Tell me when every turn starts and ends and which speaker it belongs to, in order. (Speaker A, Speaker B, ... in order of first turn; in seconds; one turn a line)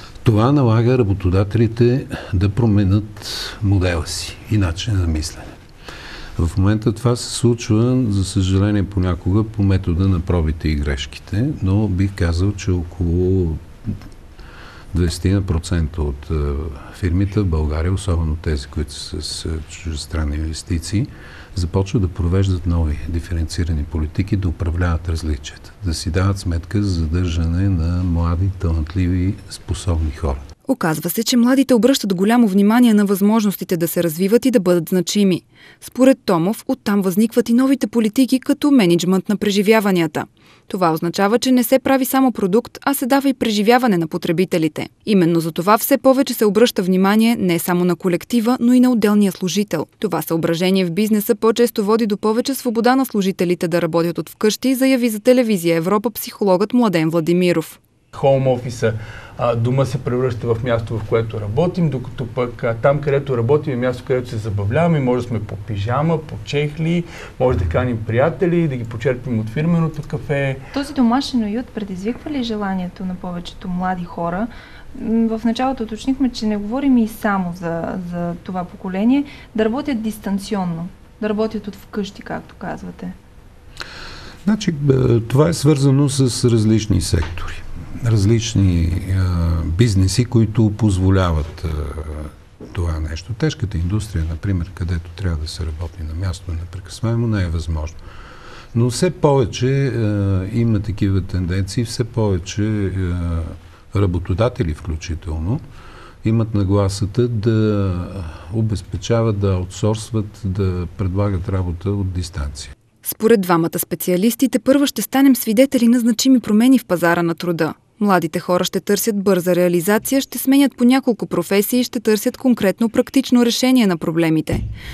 Speaker A: 0.2-5.6
Speaker A: 6.4-13.9
Speaker A: 14.9-30.4
Speaker B: 30.7-57.8
Speaker C: 58.1-70.6
Speaker D: 70.7-83.1
Speaker A: 84.4-98.0
Speaker A: 98.7-105.6
Speaker A: 106.2-112.7
Speaker B: 113.0-124.6